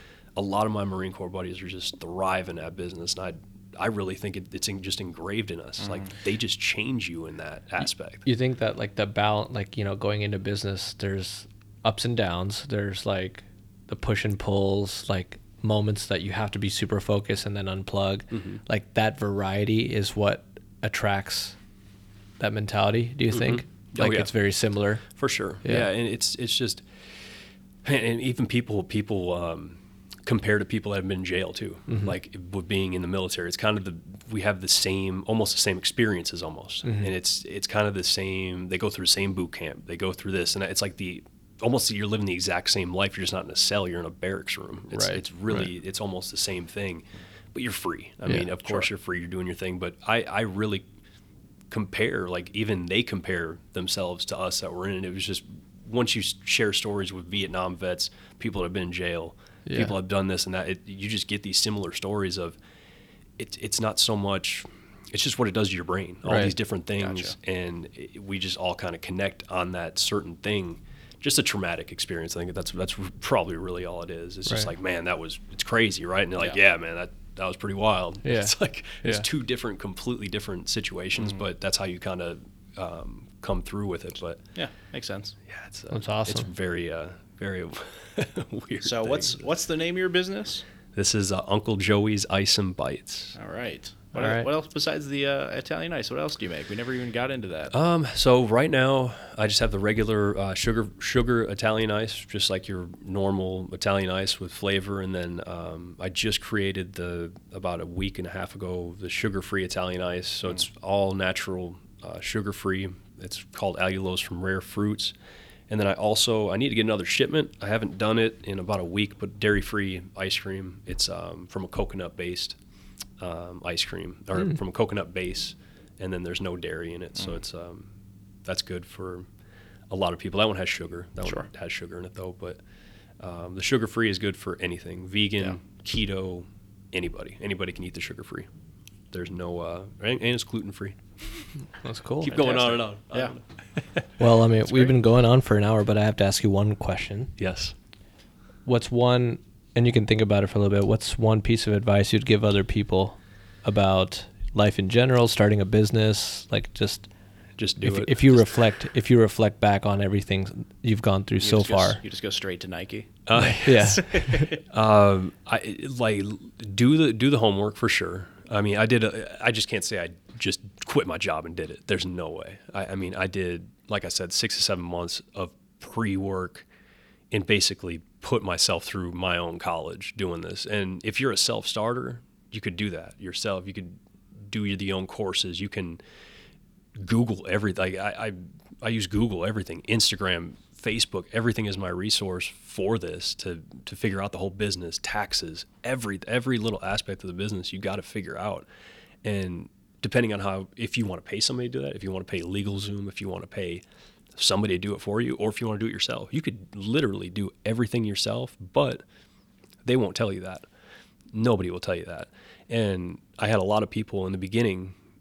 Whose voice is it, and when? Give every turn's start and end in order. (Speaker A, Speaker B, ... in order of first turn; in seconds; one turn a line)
Speaker A: 0.3-8.2
Speaker B: 8.2-21.5
Speaker A: 18.3-18.6
Speaker B: 22.4-25.0
Speaker A: 23.3-24.3
Speaker A: 25.1-26.9
Speaker B: 25.6-25.9
Speaker A: 27.8-50.9
Speaker B: 31.9-32.1
Speaker B: 36.8-37.1
Speaker B: 44.9-45.6
Speaker C: 48.3-48.9
Speaker A: 51.7-62.6
Speaker B: 59.6-60.0
Speaker A: 63.4-84.4
Speaker B: 66.2-66.5
Speaker C: 67.0-67.3
Speaker B: 78.2-79.3
Speaker C: 84.5-85.3
Speaker A: 85.5-89.4
Speaker B: 85.9-86.5
Speaker C: 88.8-90.6
Speaker A: 90.9-93.3
Speaker C: 93.3-97.7
Speaker B: 94.2-94.5
Speaker A: 97.7-115.1
Speaker A: 115.7-122.6
Speaker A: 123.2-127.9
Speaker A: 128.4-129.3
Speaker A: 129.9-132.6
Speaker C: 131.2-131.5
Speaker A: 133.2-138.5
Speaker A: 139.1-141.0
Speaker B: 141.8-142.4
Speaker A: 142.2-144.2
Speaker C: 142.3-143.3
Speaker B: 144.2-147.3
Speaker A: 147.4-147.7
Speaker B: 148.7-157.1
Speaker A: 157.6-158.5
Speaker B: 157.8-162.0
Speaker C: 161.4-164.6
Speaker A: 163.2-176.7
Speaker B: 163.3-164.6
Speaker A: 177.3-186.0
Speaker A: 186.9-198.7
Speaker A: 199.2-203.8
Speaker A: 204.3-209.0
Speaker A: 209.8-210.6
Speaker A: 211.3-214.9